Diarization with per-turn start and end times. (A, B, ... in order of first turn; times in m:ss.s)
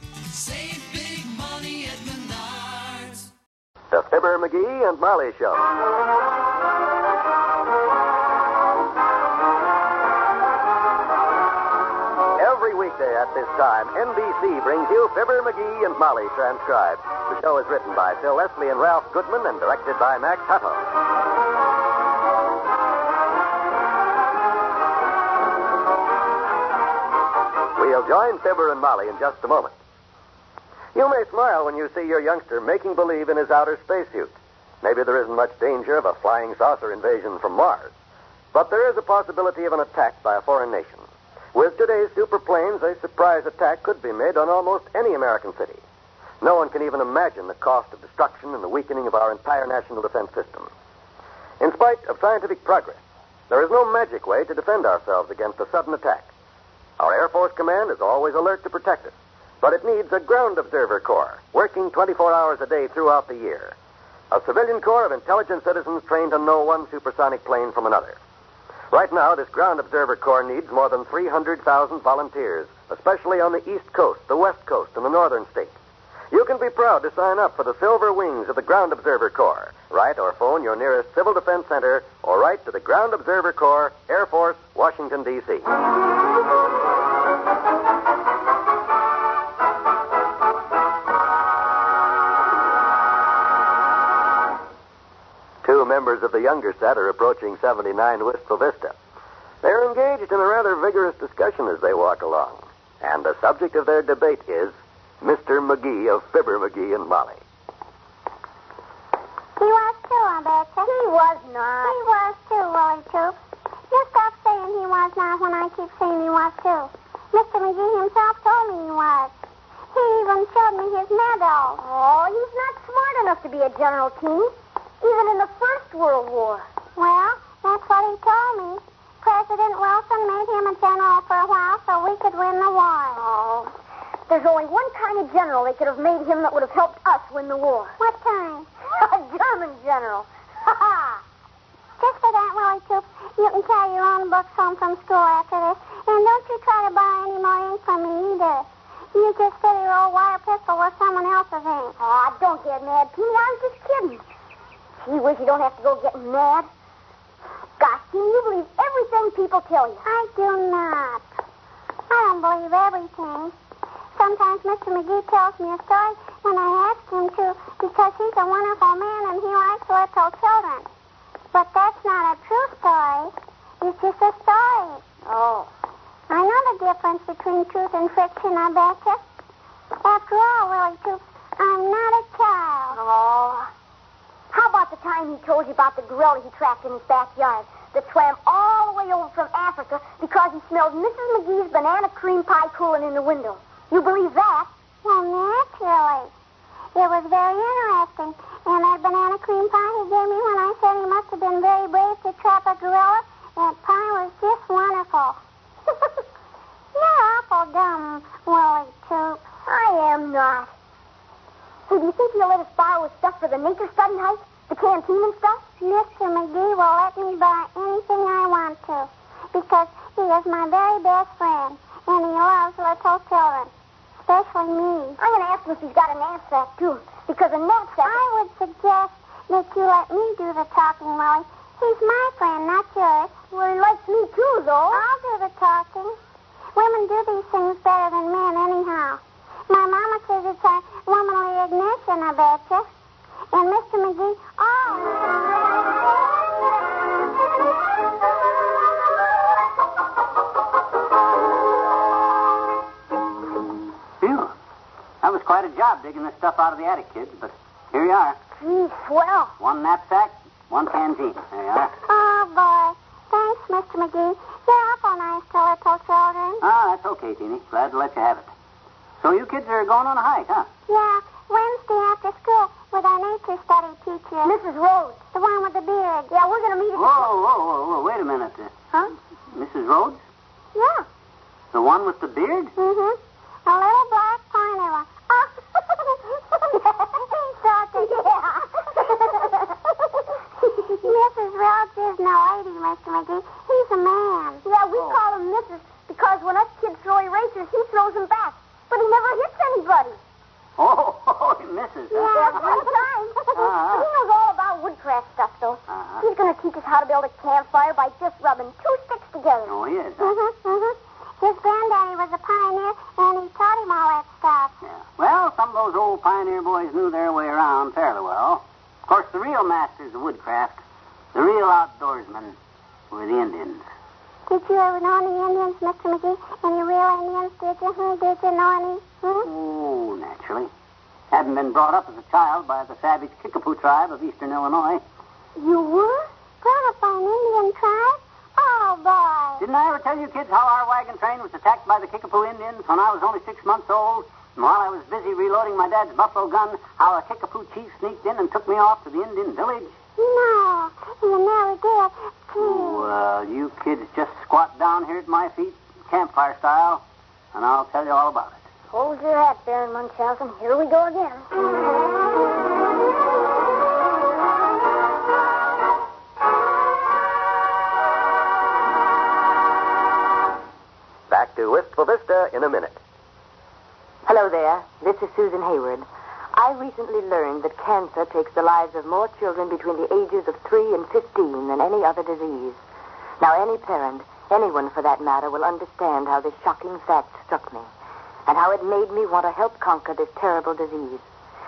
0:03.9-0:05.6 A
0:12.4-0:20.9 A
0:27.8-0:29.8 A
0:30.9-0:37.9 A
0:38.5-0:45.8 A
0:46.4-0:50.7 A
0:51.6-0:56.3 A
0:57.0-1:03.8 A
1:04.3-1:08.2 A
1:08.9-1:15.7 A
1:16.3-1:25.7 A
1:35.6-1:39.0 A
1:39.6-1:47.4 A
1:49.6-1:51.0 B
1:50.8-1:52.0 C
1:51.9-1:53.4 B
1:53.9-1:59.3 B
1:59.9-2:01.8 B
2:01.8-2:06.7 C
2:07.0-2:13.2 B
2:13.1-2:13.7 C
2:14.3-2:17.9 C
2:18.0-2:18.7 B
2:19.0-2:21.2 C
2:22.0-2:32.0 B
2:32.0-2:34.2 C
2:35.0-2:36.7 C
2:37.8-2:40.1 C
2:40.0-2:41.2 B
2:42.1-2:43.6 B
2:44.2-2:50.9 B
2:51.5-2:55.0 B
2:55.2-2:55.7 C
2:56.3-2:59.2 B
3:00.0-3:03.0 B
3:03.0-3:03.7 C
3:04.5-3:14.7 C
3:15.0-3:16.3 B
3:17.0-3:25.4 B
3:27.0-3:29.4 B
3:29.6-3:30.7 C
3:31.9-3:35.7 C
3:35.8-3:43.7 B
3:44.2-3:45.2 B
3:45.2-3:48.2 C
3:48.0-3:53.4 B
3:53.5-3:55.0 C
3:54.9-3:56.2 B
3:56.8-4:02.9 B
4:03.5-4:05.3 B
4:14.2-4:14.5 D
4:15.2-4:18.4 D
4:18.6-4:19.5 C
4:19.6-4:21.9 D
4:22.1-4:26.6 B
4:26.6-4:28.5 D
4:29.2-4:30.7 D
4:30.9-4:34.6 B
4:34.4-4:35.2 C
4:35.3-4:36.3 B
4:36.3-4:37.3 C
4:37.0-4:38.7 D
4:39.5-4:40.2 D
4:41.7-4:42.7 D
4:42.8-4:45.4 B
4:45.4-4:45.8 C
4:46.7-4:49.8 C
4:50.6-4:54.7 B
4:54.6-5:00.2 C
5:00.8-5:02.6 D
5:02.1-5:09.8 C
5:02.2-5:02.6 B
5:03.5-5:04.1 D
5:05.9-5:06.2 D
5:09.7-5:10.3 D
5:10.2-5:14.7 B
5:14.8-5:20.8 D
5:21.3-5:22.6 D
5:23.1-5:23.9 D
5:24.5-5:29.5 B
5:29.4-5:30.7 D
5:31.3-5:35.0 D
5:35.6-5:36.2 C
5:36.6-5:39.6 B
5:39.6-5:49.9 D
5:50.2-5:53.1 B
5:52.6-5:58.6 D
5:58.9-6:01.5 C
6:11.3-6:13.0 A
6:14.3-6:22.8 E
6:23.4-6:27.9 E
6:28.5-6:31.2 E